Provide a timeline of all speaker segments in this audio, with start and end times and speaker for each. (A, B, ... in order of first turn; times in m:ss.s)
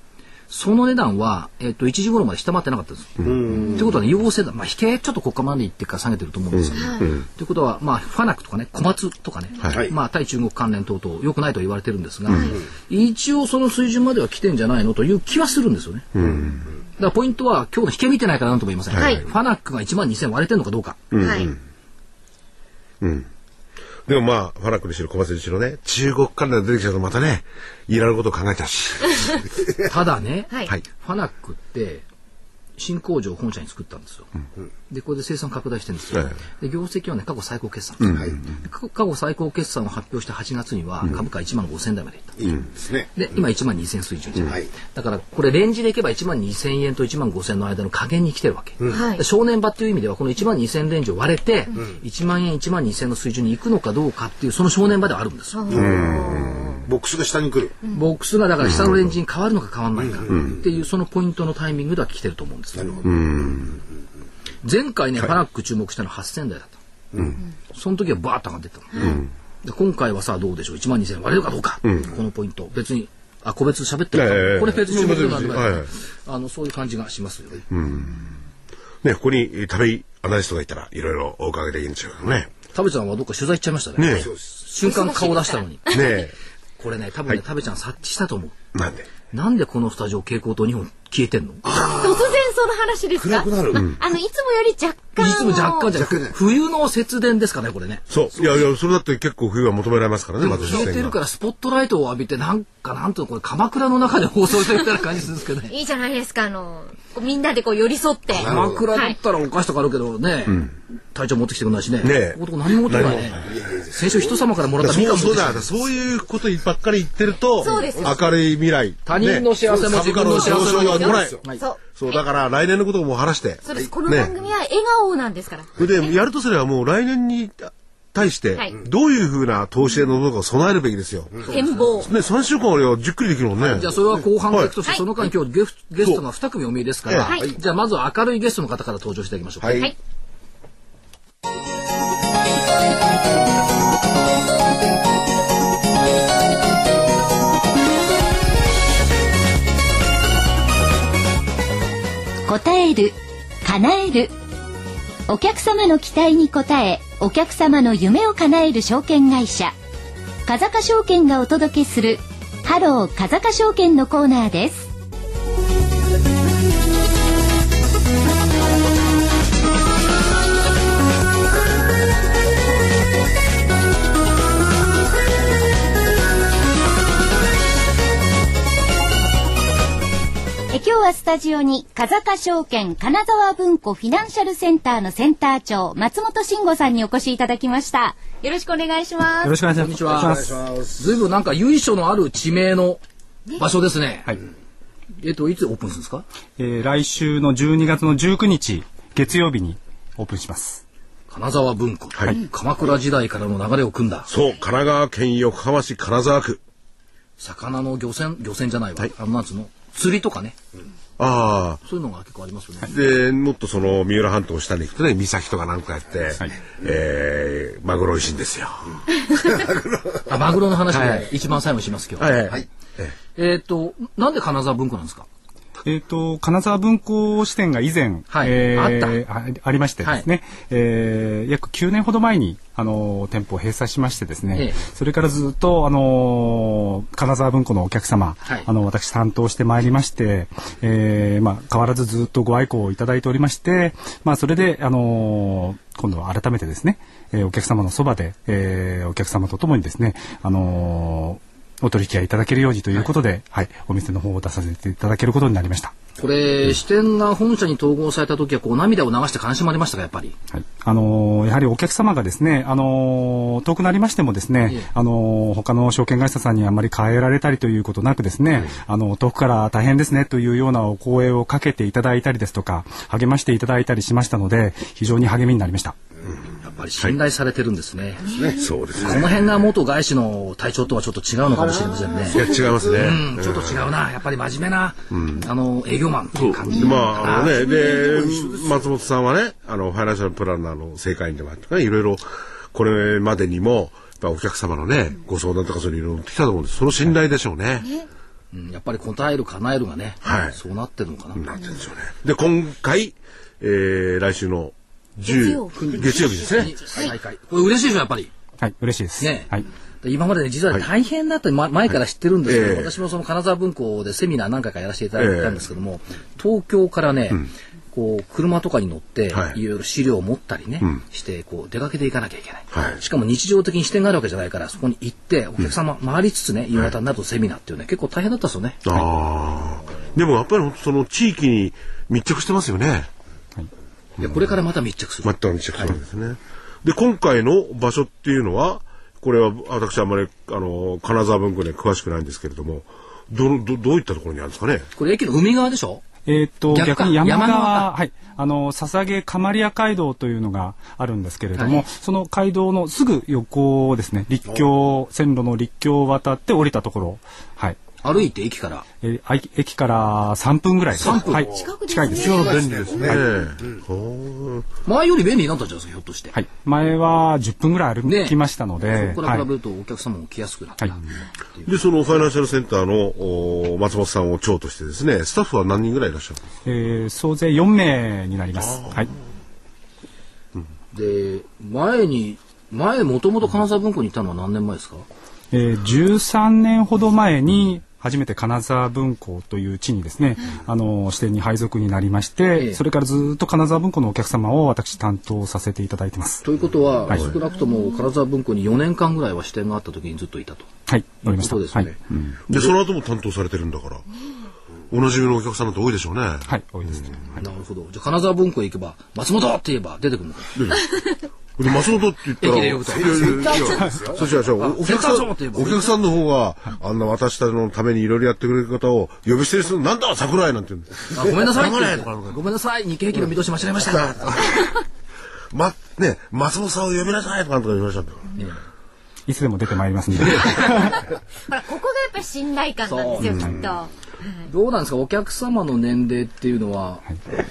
0:00.5-0:16.1 A
0:03.2-0:03.6 B
0:03.2-0:04.0 C
0:06.5-0:07.2 B
0:06.7-0:07.1 D
0:09.6-0:09.9 B
0:09.7-0:09.9 C
0:16.1-0:16.6 B
0:17.0-0:21.1 A
0:18.9-0:19.2 B
0:19.0-0:19.2 D
0:21.1-0:21.6 B
0:21.2-0:21.5 D
0:23.0-0:23.3 B
0:24.0-0:29.2 B
0:29.8-0:32.0 A
0:32.8-0:34.3 A
0:34.9-0:42.4 A
0:38.0-0:38.5 B
0:38.1-0:38.4 C
0:42.4-0:43.1 C
0:43.1-0:55.8 A
0:44.4-0:44.7 C
0:48.9-0:49.2 D
0:55.5-0:56.8 D
0:55.7-0:57.8 C
0:55.7-0:56.8 B
0:57.9-1:02.9 A
0:58.6-0:59.0 B
1:00.0-1:00.6 C
1:00.3-1:00.6 B
1:02.7-1:03.8 C
1:03.0-1:03.8 B
1:04.6-1:06.8 A
1:07.1-1:07.4 C
1:07.7-1:17.6 A
1:08.9-1:09.2 D
1:09.0-1:09.3 B
1:11.8-1:12.1 B
1:14.1-1:15.9 B
1:17.7-1:18.3 B
1:19.0-1:22.5 B
1:22.7-1:26.1 A
1:24.0-1:24.3 B
1:24.1-1:24.5 C
1:24.8-1:26.1 D
1:25.8-1:26.3 B
1:26.8-1:28.6 A
1:28.7-1:29.1 B
1:29.3-1:31.7 A
1:31.6-1:32.4 C
1:31.7-1:35.9 D
1:33.2-1:33.9 C
1:35.2-1:38.0 A
1:35.9-1:36.4 C
1:38.1-1:41.2 B
1:40.4-1:45.7 A
1:45.7-1:49.1 D
1:48.3-1:48.8 C
1:48.3-1:55.6 A
1:52.0-1:53.5 B
1:53.0-1:54.4 C
1:54.8-2:01.4 B
1:57.6-1:58.2 D
1:57.7-1:58.0 A
1:59.0-2:01.6 A
2:00.0-2:01.4 C
2:01.6-2:02.2 D
2:01.9-2:04.3 B
2:03.6-2:05.7 D
2:05.8-2:13.9 B
2:11.5-2:12.0 D
2:13.6-2:19.9 A
2:17.1-2:17.3 B
2:32.4-2:34.3 E
2:35.3-2:39.7 E
2:40.4-2:44.9 E
3:00.7-3:09.5 E
3:09.4-3:10.6 F
3:09.7-3:13.0 A
3:10.0-3:11.1 C
3:13.6-3:14.4 A
3:15.2-3:16.2 A
3:16.6-3:20.8 F
3:21.3-3:24.3 A
3:24.3-3:26.6 B
3:27.4-3:30.6 A
3:31.2-3:31.8 B
3:31.8-3:32.9 A
3:32.9-3:39.0 B
3:39.4-3:40.3 C
3:40.3-3:42.5 A
3:40.9-3:41.3 B
3:42.2-3:43.1 B
3:43.4-3:45.3 A
3:45.8-4:15.9 F
3:48.3-3:49.2 A
4:16.2-4:20.4 A
4:20.5-4:36.0 F
4:36.6-4:38.4 A
4:38.3-4:39.1 C
4:38.5-4:39.4 B
4:38.9-4:48.3 A
4:41.5-4:43.1 C
4:42.3-4:43.8 B
4:45.1-4:45.4 B
4:46.3-4:57.9 B
4:47.2-4:47.6 C
4:58.5-5:01.5 A
5:00.2-5:00.6 B
5:01.4-5:06.8 B
5:05.2-5:06.4 D
5:05.7-5:08.3 A
5:08.6-5:09.6 F
5:09.2-5:29.1 A
5:12.4-5:12.9 B
5:15.2-5:15.6 B
5:19.3-5:19.6 B
5:22.7-5:23.0 B
5:28.8-5:33.1 B
5:34.2-5:36.0 A
5:35.2-5:44.9 B
5:45.0-5:46.0 A
5:46.2-5:57.8 F
5:46.7-5:47.9 A
5:51.6-5:51.8 A
5:58.0-5:58.8 A
5:59.0-6:02.4 F
6:01.0-6:01.4 A
6:01.1-6:03.8 C
6:01.5-6:01.8 E
6:01.9-6:02.6 D
6:02.1-6:04.6 B
6:04.8-6:06.4 A
6:06.3-6:09.5 F
6:08.0-6:11.7 A
6:11.6-6:16.4 B
6:16.6-6:19.1 F
6:20.9-6:25.0 A
6:25.5-6:36.4 F
6:32.6-6:32.8 A
6:36.4-6:40.7 A
6:40.9-6:42.4 F
6:41.2-6:42.0 A
6:42.5-6:44.0 B
6:44.9-6:46.5 B
6:46.5-6:47.4 F
6:47.4-6:50.6 A
6:50.5-6:51.0 B
6:51.6-7:02.4 B
6:52.4-6:56.0 A
6:53.0-6:54.2 C
7:01.1-7:04.6 A
7:03.9-7:04.5 B
7:05.5-7:08.3 B
7:09.3-7:11.0 F
7:10.2-7:10.7 A
7:11.5-7:13.9 D
7:12.8-7:13.6 A
7:14.5-7:17.0 A